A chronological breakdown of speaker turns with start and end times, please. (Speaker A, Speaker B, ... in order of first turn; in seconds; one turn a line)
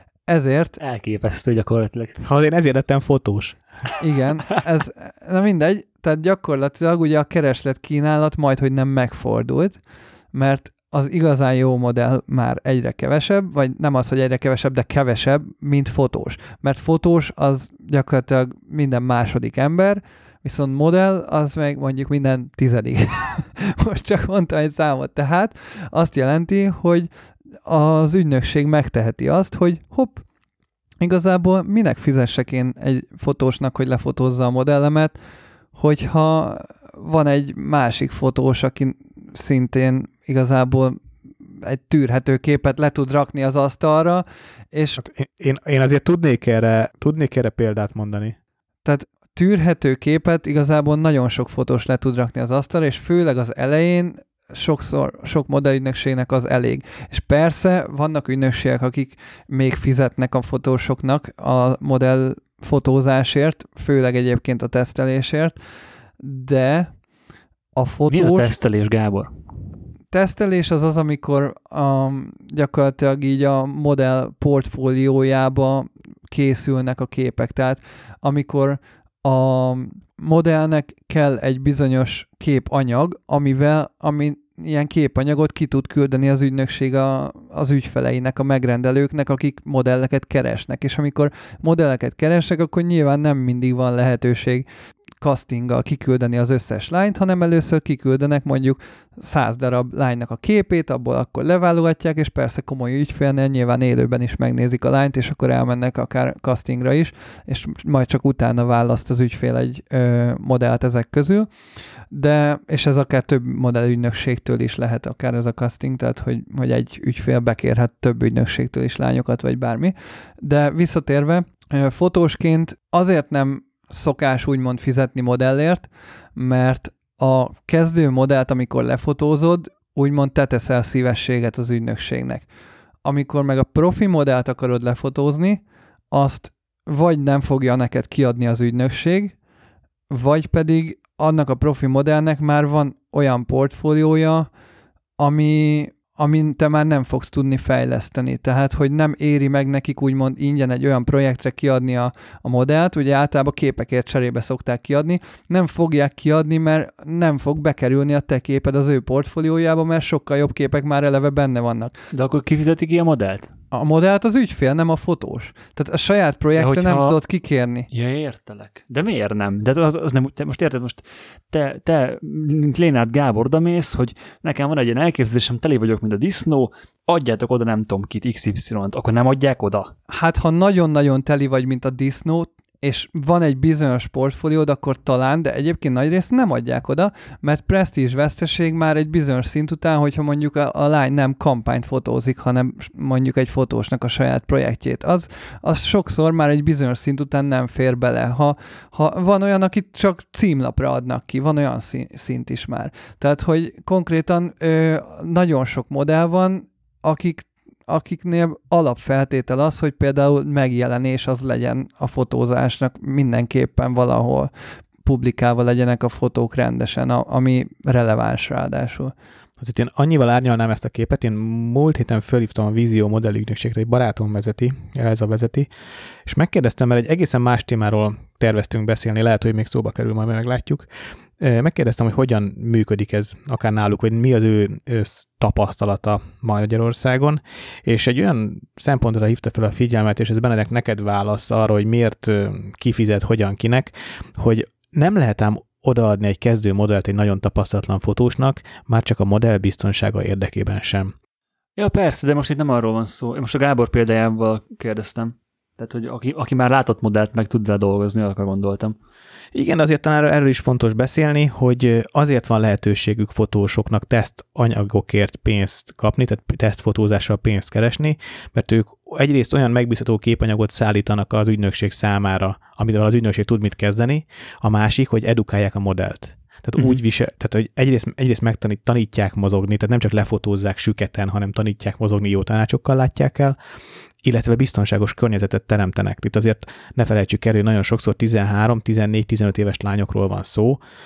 Speaker A: 0.3-0.8
Speaker B: 0.8-2.2
Speaker C: 2.2-3.6
Speaker A: 4.0-9.8
Speaker A: 10.3-27.1
Speaker A: 27.6-30.2
Speaker A: 31.0-35.1
Speaker A: 35.7-41.0
Speaker A: 41.6-45.0
Speaker C: 45.0-48.4
Speaker A: 48.8-65.6
Speaker A: 66.2-66.9
Speaker A: 67.8-68.5
Speaker B: 68.1-69.3
Speaker A: 70.1-94.7
Speaker A: 95.2-111.5
Speaker A: 112.1-132.4
Speaker A: 133.0-139.3
Speaker A: 140.1-144.5
Speaker A: 145.2-161.9
Speaker B: 162.1-163.5
Speaker A: 163.7-167.9
Speaker B: 166.6-167.2
Speaker B: 167.9-179.9
Speaker A: 180.1-214.5
Speaker A: 215.0-219.1
Speaker C: 219.6-225.7
Speaker C: 226.2-230.9
Speaker C: 231.4-251.1
Speaker B: 251.8-258.9
Speaker C: 259.5-283.6
Speaker C: 284.2-290.8